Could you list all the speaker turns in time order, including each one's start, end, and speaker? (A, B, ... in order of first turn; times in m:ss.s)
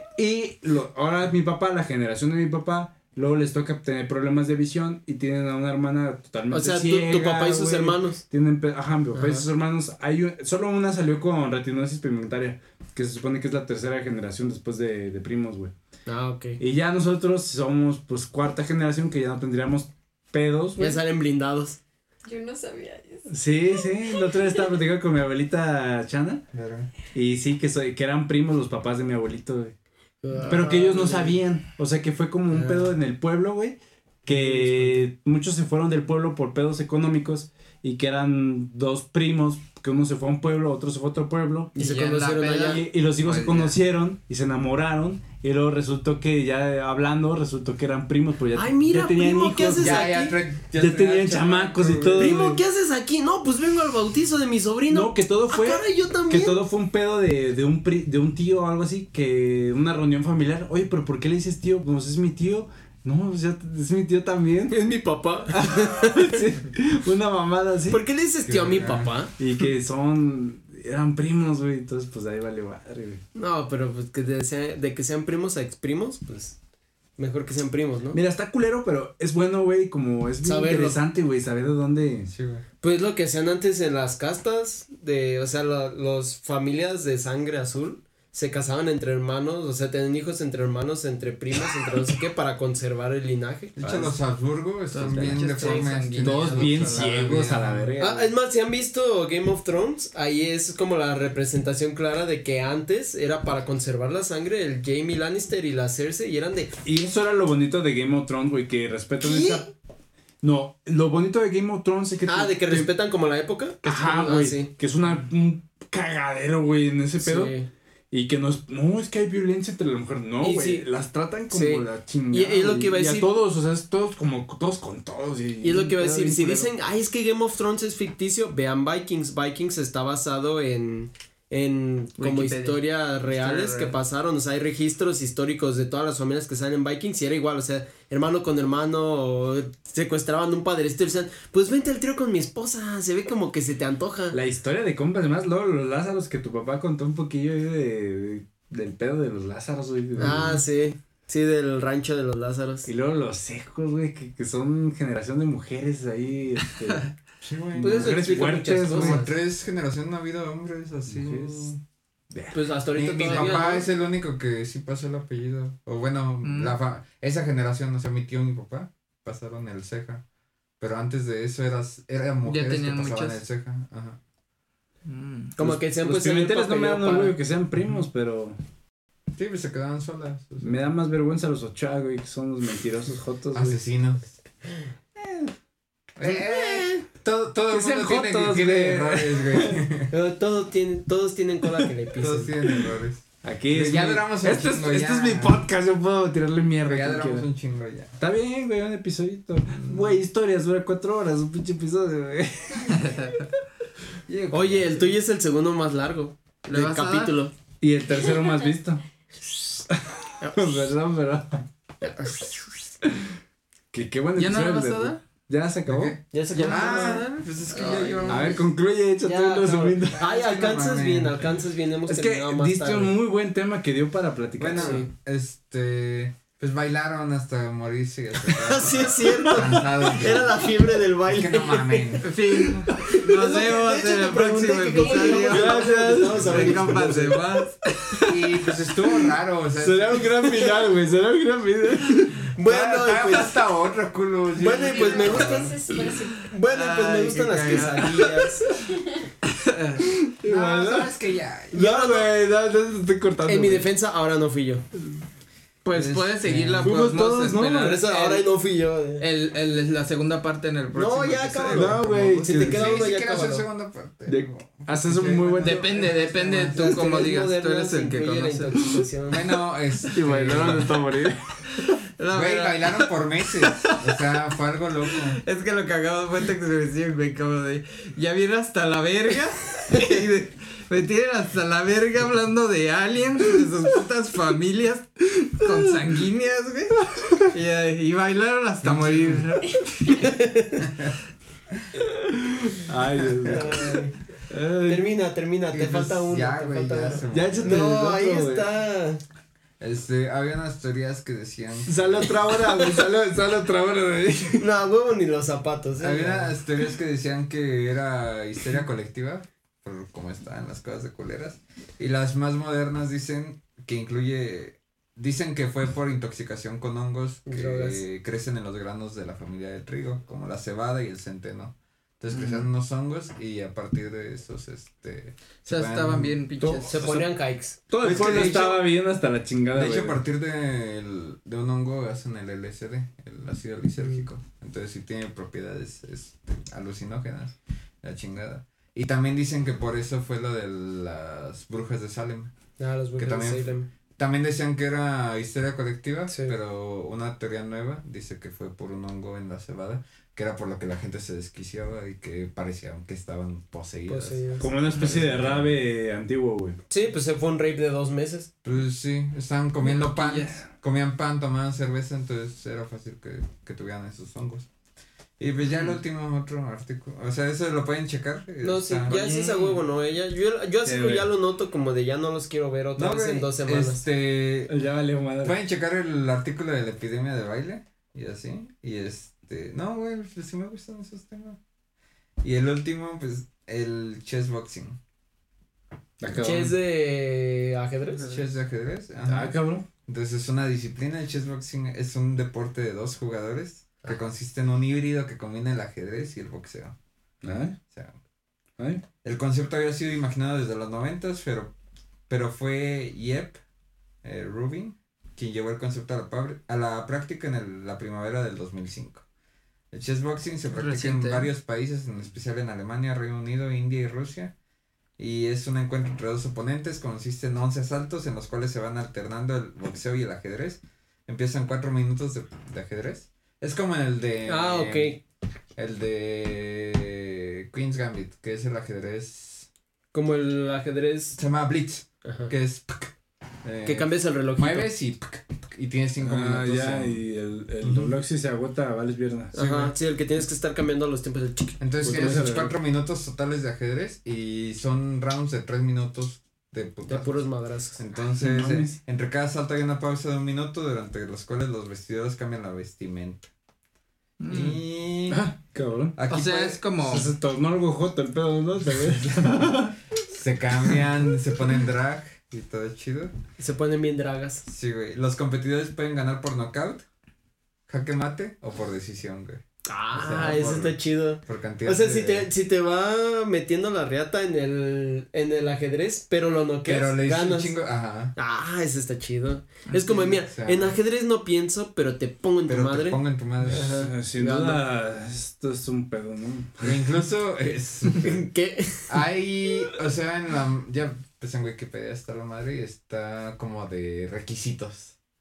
0:00.2-0:15.7 A
0:06.5-0:08.2 B
0:09.1-0:09.5 B
0:16.1-0:16.6 B
0:16.6-0:21.0 A
0:20.8-0:21.8 B
0:22.2-0:24.8 C
0:23.3-0:26.4 A
0:26.5-0:26.9 D
0:27.1-0:29.7 A
0:30.2-0:31.4 B
0:30.5-0:41.8 A
0:32.5-0:32.9 B
0:34.3-0:35.1 B
0:41.8-0:42.9 B
0:41.8-0:43.8 E
0:42.6-0:50.1 A
0:48.5-0:50.4 B
0:49.8-0:52.3 D
0:50.7-0:52.6 A
0:52.2-0:56.6 B
0:54.9-1:04.8 A
1:04.7-1:06.5 B
1:05.5-1:08.0 A
1:07.9-1:09.4 B
1:08.5-1:09.1 D
1:09.4-1:13.2 A
1:13.4-1:16.6 B
1:17.2-1:18.2 B
1:18.1-1:22.3 A
1:20.4-1:21.0 B
1:22.3-1:22.6 D
1:22.8-1:33.8 B
1:33.8-1:38.0 D
1:33.8-1:34.1 A
1:34.9-1:37.3 E
1:35.6-1:35.9 B
1:36.2-1:38.3 A
1:38.0-1:46.7 B
1:46.8-1:49.7 A
1:49.2-1:49.7 B
1:50.4-1:52.9 A
1:52.3-1:54.7 B
1:53.8-1:57.5 A
1:57.2-1:57.7 B
1:58.1-2:06.7 A
2:00.4-2:00.9 B
2:01.5-2:03.3 B
2:05.6-2:24.4 B
2:12.2-2:14.0 E
2:24.3-2:30.6 A
2:30.2-2:32.9 B
2:32.9-2:37.2 A
2:37.4-2:41.8 D
2:37.8-2:39.2 A
2:37.8-2:39.3 B
2:41.1-2:41.7 A
2:42.3-2:42.6 A
2:42.5-2:43.9 B
2:43.0-2:50.2 D
2:46.4-2:46.8 E
2:50.8-2:54.2 D
2:52.4-2:53.4 E
2:55.0-2:55.6 E
2:55.6-2:57.4 B
2:55.6-2:58.6 A
2:59.4-3:00.8 D
3:00.6-3:03.8 A
3:03.5-3:04.3 D
3:05.2-3:05.5 A
3:06.2-3:10.1 D
3:06.2-3:07.0 B
3:07.7-3:09.8 A
3:10.1-3:12.6 B
3:12.2-3:15.7 D
3:13.4-3:17.5 A
3:16.8-3:18.2 D
3:18.2-3:23.1 A
3:19.7-3:20.2 D
3:22.8-3:23.5 E
3:24.3-3:25.2 D
3:24.5-3:27.5 B
3:26.7-3:27.3 E
3:27.8-3:31.6 A
3:30.4-3:30.8 B
3:33.9-3:37.1 A
3:34.4-3:35.2 E
3:35.9-3:38.7 D
3:36.3-3:38.6 B
3:36.8-3:37.1 E
3:37.7-3:38.3 E
3:38.3-3:40.2 A
3:39.2-3:43.2 B
3:40.1-3:41.4 D
3:42.1-3:45.0 A
3:44.6-3:50.7 D
3:44.8-3:45.1 B
3:48.5-3:57.4 B
3:51.2-3:52.3 D
3:52.2-3:55.9 E
3:54.9-3:56.1 C
3:55.4-3:56.9 A
3:56.4-3:58.2 E
3:56.5-3:56.8 D
3:58.3-4:00.5 D
3:59.8-4:02.5 A
4:00.5-4:00.8 B
4:02.6-4:03.7 B
4:02.6-4:05.7 D
4:04.6-4:08.7 B
4:04.8-4:06.5 C
4:06.7-4:08.5 E
4:09.4-4:10.0 E
4:10.0-4:11.1 A
4:10.4-4:11.8 D
4:11.7-4:13.9 A
4:11.7-4:12.3 B
4:13.4-4:14.8 B
4:15.9-4:18.4 E
4:15.9-4:17.0 D
4:16.8-4:18.0 A
4:17.7-4:19.2 B
4:19.2-4:22.0 E
4:20.9-4:23.7 B
4:21.7-4:23.1 A
4:22.0-4:26.3 D
4:24.3-4:25.9 A
4:25.6-4:28.8 E
4:25.7-4:29.4 B
4:29.3-4:30.9 D
4:30.1-4:31.6 A
4:30.5-4:30.9 B
4:31.8-4:34.2 E
4:32.3-4:35.4 D
4:35.3-4:50.2 E
4:48.8-4:49.6 D
4:50.2-4:50.8 B
4:50.8-4:51.2 D
4:52.7-4:54.0 A
4:53.3-4:54.2 B
4:53.4-4:54.0 D
4:54.5-4:55.0 A
4:54.8-4:59.2 B
4:55.7-4:57.9 D
4:57.3-4:58.7 A
4:59.8-5:02.6 D
5:01.9-5:04.7 A
5:04.6-5:06.5 B
5:06.0-5:26.4 D
5:17.5-5:18.0 B
5:22.3-5:22.6 E
5:25.7-5:27.0 E
5:26.6-5:27.3 A
5:26.9-5:28.7 B
5:27.9-5:30.2 A
5:28.0-5:28.9 D
5:29.7-5:42.5 D
5:34.0-5:34.2 B
5:42.8-5:43.9 B
5:43.2-5:55.8 D
5:46.3-5:46.6 B
5:54.1-5:54.7 B
5:54.6-5:56.8 A
5:56.9-5:58.5 B
5:58.6-6:04.7 D
5:59.8-6:00.6 E
6:05.4-6:09.2 D
6:05.7-6:06.0 E
6:08.6-6:14.0 B
6:09.1-6:09.8 E
6:10.8-6:11.3 A
6:13.0-6:14.7 D
6:14.7-6:15.6 A
6:15.4-6:21.6 D
6:22.4-6:25.0 D
6:26.2-6:26.8 A
6:26.4-6:28.3 B
6:28.2-6:37.0 D
6:29.3-6:29.8 A
6:37.4-6:37.8 A
6:37.9-6:38.2 D
6:38.8-6:39.0 A
6:39.2-6:41.7 D
6:42.3-6:43.6 D
6:44.2-6:49.2 D
6:49.9-6:54.5 D
6:50.8-6:51.5 E
6:55.2-7:05.2 D
7:04.5-7:05.2 B
7:05.8-7:09.7 D
7:10.1-7:11.4 B
7:11.4-7:13.1 D
7:12.2-7:12.5 B
7:13.6-7:17.2 D
7:13.8-7:14.9 B
7:16.2-7:19.5 A
7:17.8-7:18.2 D
7:19.5-7:22.6 B
7:19.5-7:19.9 D
7:21.8-7:33.5 D
7:22.0-7:22.7 A
7:27.1-7:28.0 B
7:28.4-7:29.0 A
7:34.4-7:34.8 E
7:34.5-7:35.5 D
7:35.3-7:36.2 A
7:36.2-7:36.9 D
7:36.3-7:37.3 E
7:37.0-7:40.0 A
7:38.9-7:43.4 D
7:43.6-7:44.6 B
7:44.6-7:47.0 D
7:47.9-7:49.6 D
7:49.9-7:57.8 B
7:50.1-7:52.5 D
7:56.9-7:58.3 D
7:58.4-8:04.8 B
8:00.1-8:01.0 D
8:02.7-8:03.9 D
8:03.8-8:07.0 A
8:06.8-8:08.5 D
8:08.2-8:09.2 B
8:09.1-8:15.2 D